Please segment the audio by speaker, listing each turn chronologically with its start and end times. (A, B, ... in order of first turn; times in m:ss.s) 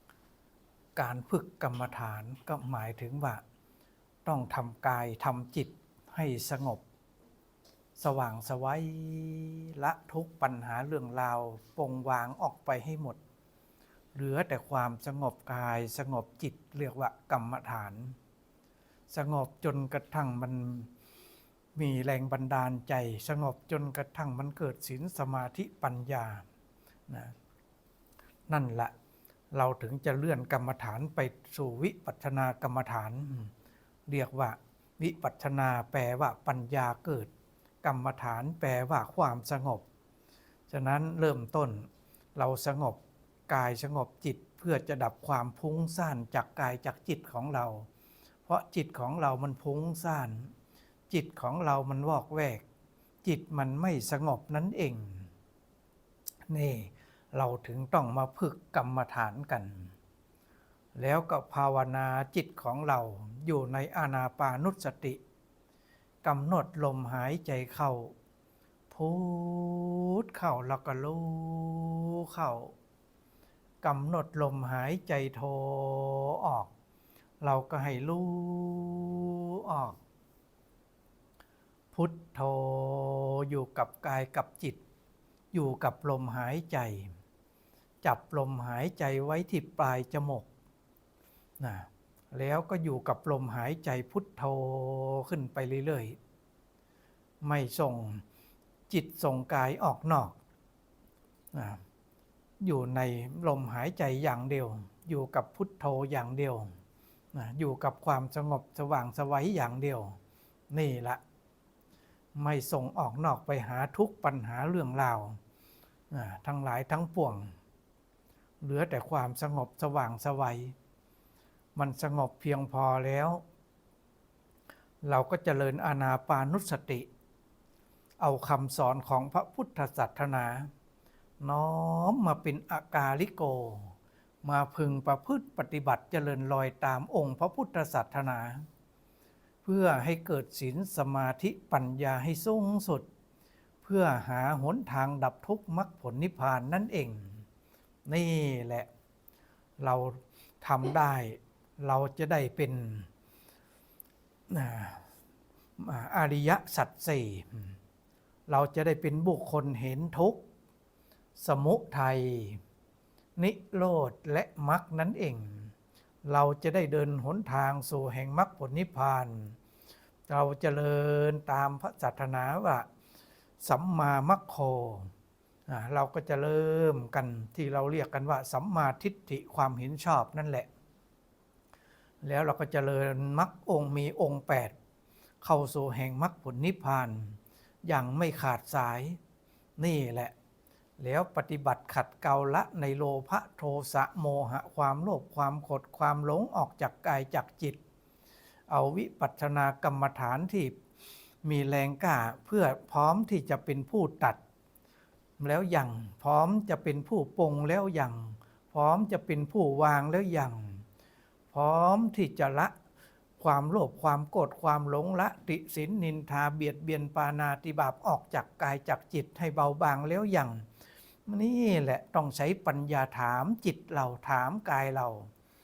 0:01.0-0:03.4 A
0:04.2-0:06.8 A
0:08.0-0:13.2 A
0:14.1-0:18.2 A
0:19.1-0:20.9 A
0:21.8-0:26.4 A
0:27.1-0:27.3 A
0:28.5-0:28.9 A
0:29.5-0:33.5 A
0:34.1-0:37.3 A
0:37.8-0:39.9 A
0:40.7-0:47.9 A
0:48.5-0:50.5 A
0:51.1-0:52.6 A
0:53.2-0:55.3 A
0:56.5-0:59.9 A
1:01.0-1:05.2 A
1:06.2-1:08.2 A
1:08.9-1:12.7 A
1:13.8-1:16.7 A
1:17.4-1:20.0 A
1:21.9-1:24.8 A
1:25.5-1:27.1 A
1:28.0-1:30.5 A
1:31.6-1:36.2 A
1:37.4-1:38.2 A
1:38.9-1:40.4 A
1:41.5-1:41.8 A
1:42.6-1:46.7 A
1:47.3-1:50.2 A
1:50.7-1:51.2 A
1:52.4-1:55.4 A
1:56.1-1:57.5 A
1:58.6-2:00.8 A
2:01.8-2:03.4 A
2:05.0-2:07.1 A
2:08.2-2:10.7 A
2:11.4-2:18.7 A
2:19.6-2:23.1 A
2:23.8-2:27.4 A
2:28.1-2:28.9 A
2:29.8-2:33.1 A
2:34.5-2:35.1 A
2:35.8-2:37.8 A
2:38.5-2:40.4 A
2:41.4-2:42.6 A
2:43.4-2:45.7 A
2:46.2-2:49.6 A
2:50.3-2:52.9 A
2:53.6-2:55.1 A
2:55.7-3:00.7 A
3:02.2-3:04.7 A
3:05.4-3:09.2 A
3:09.8-3:10.3 A
3:11.0-3:17.8 A
3:18.7-3:20.8 A
3:21.4-3:24.4 A
3:25.4-3:30.8 A
3:31.5-3:32.7 A
3:33.4-3:40.7 A
3:41.3-3:45.3 A